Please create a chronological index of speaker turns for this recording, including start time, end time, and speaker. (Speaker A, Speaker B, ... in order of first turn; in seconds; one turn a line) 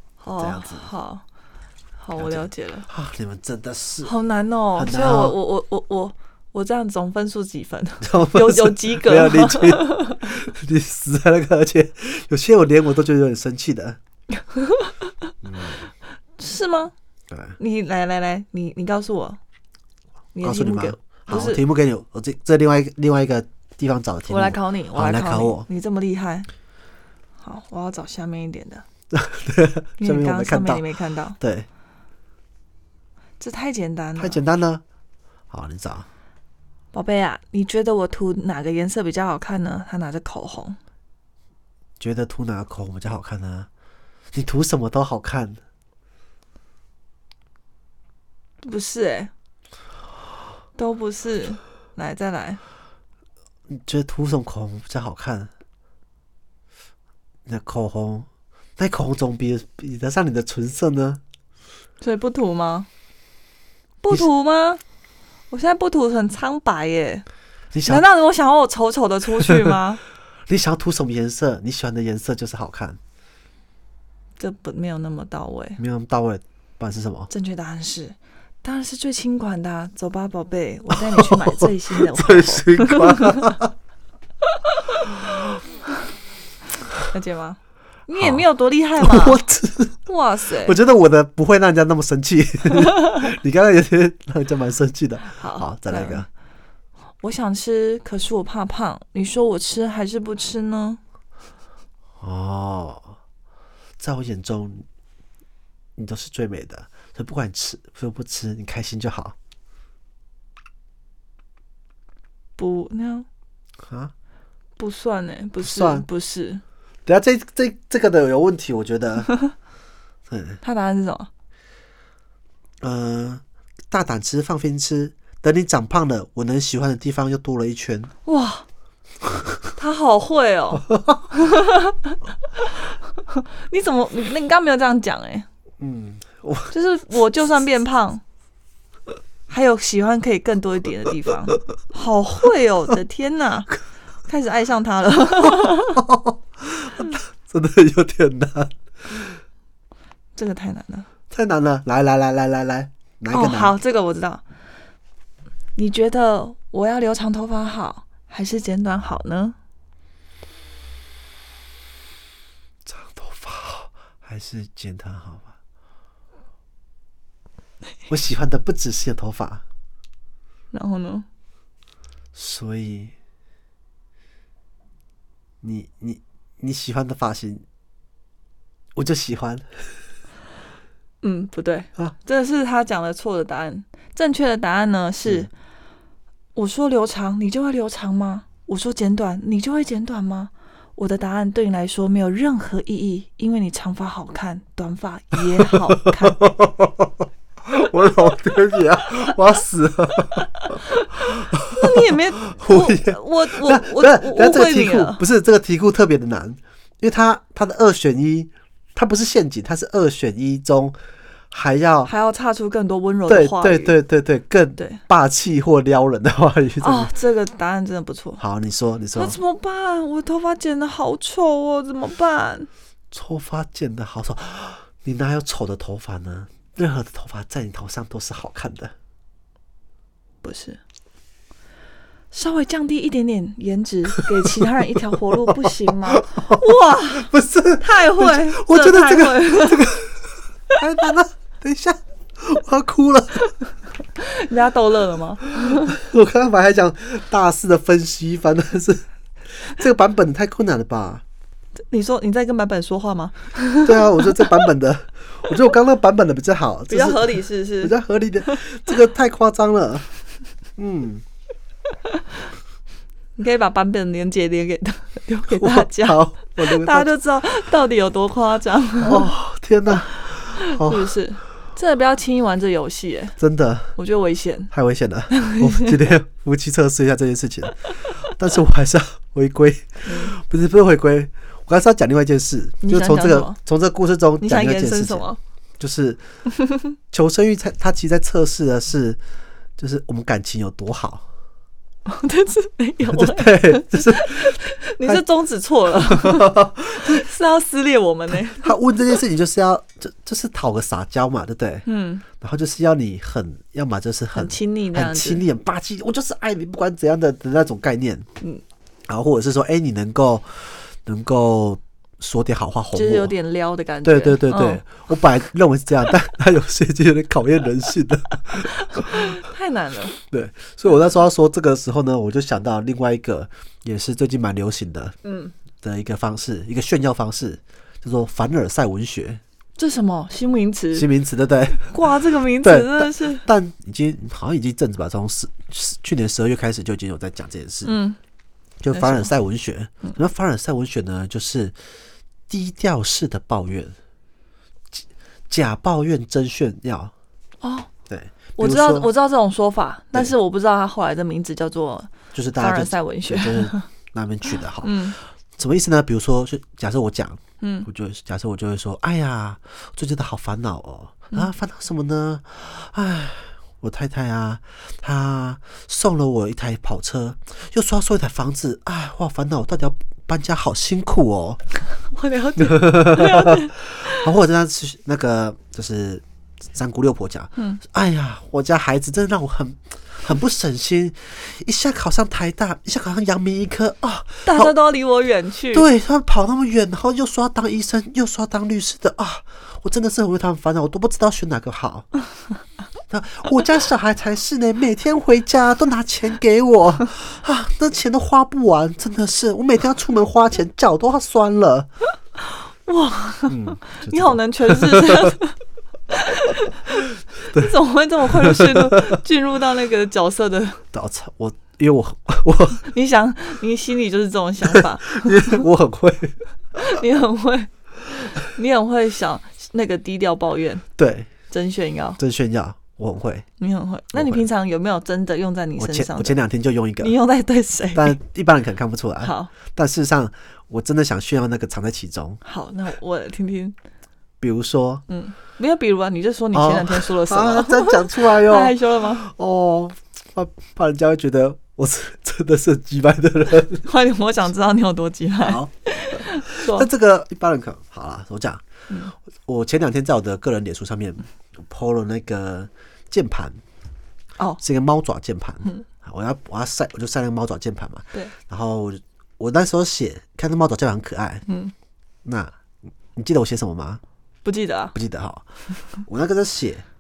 Speaker A: 0.2-1.2
Speaker B: 0.4-0.9
Speaker A: 2.0-2.9
Speaker B: 2.1-4.1
Speaker A: 4.0-10.2
Speaker B: 4.7-5.3
Speaker B: 8.0-14.0
Speaker A: 14.4-15.1
Speaker B: 15.4-15.9
Speaker A: 16.4-16.9
Speaker B: 17.3-17.6
Speaker A: 17.6-19.4
Speaker A: 20.3-21.6
Speaker B: 20.4-25.6
Speaker A: 24.3-26.5
Speaker A: 27.4-28.8
Speaker B: 29.1-30.8
Speaker A: 30.0-31.4
Speaker B: 31.4-31.7
Speaker A: 33.4-34.4
Speaker B: 34.1-34.8
Speaker B: 35.5-36.0
Speaker A: 36.9-40.8
Speaker B: 42.0-43.7
Speaker B: 44.3-45.6
Speaker A: 48.6-49.3
Speaker A: 50.8-52.6
Speaker B: 53.7-55.5
Speaker B: 57.5-58.3
Speaker B: 58.8-61.2
Speaker A: 62.0-62.9
Speaker A: 64.0-64.8
Speaker A: 65.5-67.2
Speaker B: 67.7-68.0
Speaker A: 67.8-70.0
Speaker B: 69.5-69.7
Speaker B: 70.5-73.0
Speaker A: 74.4-75.8
Speaker B: 75.8-77.3
Speaker A: 77.3-83.6
Speaker B: 80.9-83.7
Speaker A: 84.5-85.1
Speaker A: 87.0-89.4
Speaker B: 88.1-88.4
Speaker B: 89.0-90.0
Speaker A: 90.0-90.8
Speaker B: 90.6-96.3
Speaker A: 95.3-96.2
Speaker A: 97.2-101.0
Speaker B: 102.2-103.2
Speaker B: 104.0-104.8
Speaker B: 106.0-109.3
Speaker A: 112.6-113.2
Speaker B: 113.8-114.1
Speaker A: 114.8-116.6
Speaker B: 115.6-116.0
Speaker B: 117.0-119.3
Speaker B: 120.3-120.6
Speaker A: 120.6-121.3
Speaker B: 122.8-128.1
Speaker A: 128.2-128.6
Speaker A: 129.8-132.8
Speaker A: 133.3-135.5
Speaker B: 135.8-136.7
Speaker A: 136.7-138.2
Speaker A: 139.5-143.7
Speaker A: 144.3-146.0
Speaker B: 145.9-149.4
Speaker A: 150.3-151.1
Speaker B: 151.3-153.8
Speaker A: 153.3-154.4
Speaker A: 155.8-159.6
Speaker B: 162.8-165.5
Speaker B: 168.1-169.6
Speaker A: 170.7-171.2
Speaker B: 172.3-173.1
Speaker B: 175.6-177.6
Speaker B: 178.9-179.9
Speaker A: 181.2-185.5
Speaker A: 186.5-196.4
Speaker B: 195.6-211.0
Speaker A: 200.3-205.2
Speaker B: 211.5-212.1
Speaker A: 212.1-214.0
Speaker B: 213.3-217.1
Speaker A: 216.8-218.4
Speaker B: 218.4-219.4
Speaker A: 219.1-222.7
Speaker B: 223.1-228.9
Speaker A: 230.4-230.8
Speaker A: 232.3-239.9
Speaker B: 234.9-243.5
Speaker A: 244.1-245.9
Speaker B: 245.6-249.0
Speaker B: 249.6-251.2
Speaker A: 251.9-254.4
Speaker B: 253.8-260.0
Speaker A: 256.9-258.6
Speaker B: 260.8-261.2
Speaker A: 263.4-269.3
Speaker B: 265.5-267.1
Speaker B: 269.0-271.1
Speaker A: 270.6-273.4
Speaker B: 273.4-273.9
Speaker A: 273.9-274.7
Speaker B: 274.7-285.3
Speaker A: 275.3-276.0
Speaker A: 280.1-280.4
Speaker A: 282.8-283.6
Speaker A: 284.4-285.4
Speaker B: 285.8-286.2
Speaker B: 287.1-289.2
Speaker B: 289.8-291.2
Speaker A: 292.1-298.7
Speaker B: 293.1-295.2
Speaker B: 296.1-297.2
Speaker B: 298.5-301.8
Speaker A: 301.9-302.2
Speaker B: 302.4-308.3
Speaker A: 304.3-305.4
Speaker B: 309.1-313.3
Speaker A: 312.9-314.8
Speaker B: 314.0-319.4
Speaker A: 318.8-320.2
Speaker B: 320.2-325.2
Speaker A: 325.2-325.5
Speaker B: 325.8-329.4
Speaker A: 329.8-331.1
Speaker B: 330.9-332.0
Speaker A: 331.8-333.5
Speaker B: 332.6-337.9
Speaker A: 337.8-338.2
Speaker B: 338.8-341.7
Speaker A: 338.9-339.3
Speaker B: 342.5-343.9
Speaker B: 345.5-347.1
Speaker A: 347.6-347.9
Speaker B: 348.1-349.1
Speaker A: 348.6-353.8
Speaker B: 352.3-371.6
Speaker A: 354.8-355.1
Speaker A: 357.6-357.9
Speaker A: 372.1-374.3
Speaker B: 372.6-384.7
Speaker A: 384.4-385.9
Speaker B: 385.7-392.1
Speaker B: 393.1-401.9
Speaker A: 402.5-405.6
Speaker B: 403.5-405.4
Speaker A: 406.1-410.8
Speaker B: 407.4-407.7
Speaker B: 408.3-409.1
Speaker B: 410.9-412.8
Speaker A: 412.8-415.6
Speaker B: 414.6-416.4
Speaker A: 416.8-420.9
Speaker B: 421.0-421.3
Speaker A: 421.5-422.2
Speaker B: 422.2-423.4
Speaker A: 423.6-426.4
Speaker B: 424.1-424.4
Speaker B: 425.8-427.1
Speaker A: 427.0-428.2
Speaker B: 427.9-432.4
Speaker A: 429.2-429.5
Speaker A: 432.4-433.8
Speaker B: 434.4-435.0
Speaker A: 435.1-439.3
Speaker B: 436.5-443.9
Speaker A: 443.8-446.9
Speaker B: 445.4-448.6
Speaker B: 449.4-453.6
Speaker B: 454.6-461.4
Speaker A: 461.5-461.7
Speaker B: 462.2-462.5
Speaker B: 463.1-464.0
Speaker A: 464.4-464.9
Speaker B: 464.9-466.8